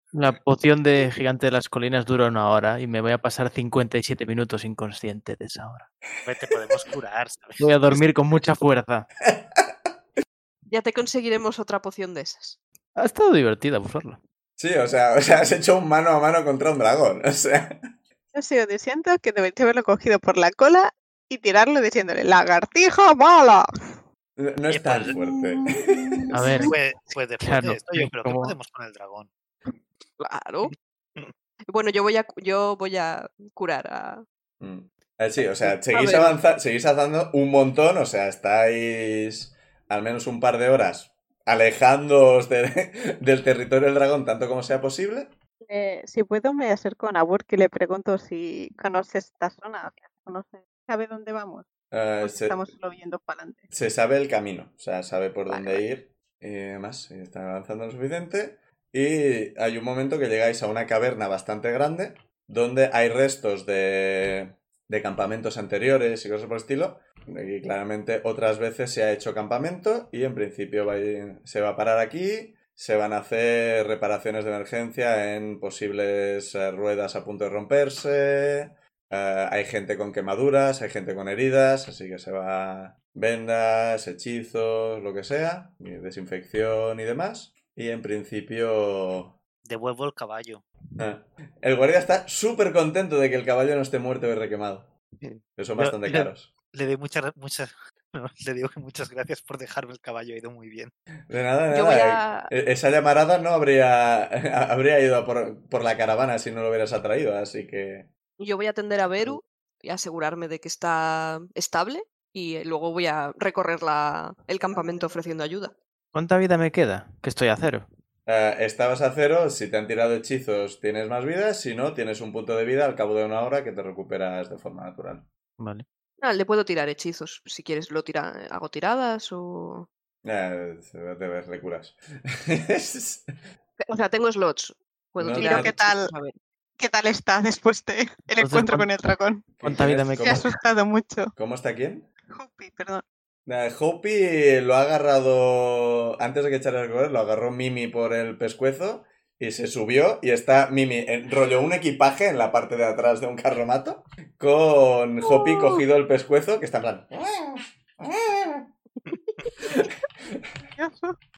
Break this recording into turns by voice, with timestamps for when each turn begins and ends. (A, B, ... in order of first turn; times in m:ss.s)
0:00.1-0:05.9 A
0:06.2-0:08.4 B
0:07.6-0:09.1 A
0:09.2-0:09.7 C
0:10.7-0:12.6 D
0:13.0-0:14.2 A
0:14.6-0:17.8 C
0:18.3-0:23.6 E
0:24.4-0:26.3 C
0:24.7-0:25.2 B
0:25.1-0:26.7 E
0:26.3-0:26.7 A
0:26.4-0:29.3 B
0:27.4-0:28.6 A
0:30.2-0:30.7 D
0:31.7-0:34.2 D
0:34.6-0:45.3 C
0:35.4-0:36.4 D
0:45.6-0:51.7 E
0:51.9-0:52.6 C
0:52.2-0:53.7 E
0:53.7-1:29.4 C
0:55.5-0:55.8 E
1:29.6-1:30.6 B
1:31.0-1:34.9 C
1:35.2-1:40.9 B
1:35.6-1:36.5 C
1:41.3-1:48.1 C
1:41.7-1:42.5 D
1:48.4-1:55.8 D
1:56.1-1:57.9 A
1:58.2-2:05.3 C
2:05.6-2:05.8 A
2:06.2-2:09.9 D
2:10.2-2:13.3 C
2:13.8-2:16.4 D
2:15.2-2:15.7 C
2:15.4-2:16.1 E
2:16.8-2:21.3 E
2:18.4-2:18.9 A
2:19.6-2:20.4 C
2:19.6-2:20.4 A
2:21.4-2:22.1 C
2:22.3-2:23.0 E
2:23.4-2:38.7 C
2:39.6-2:40.4 C
2:40.6-2:41.2 E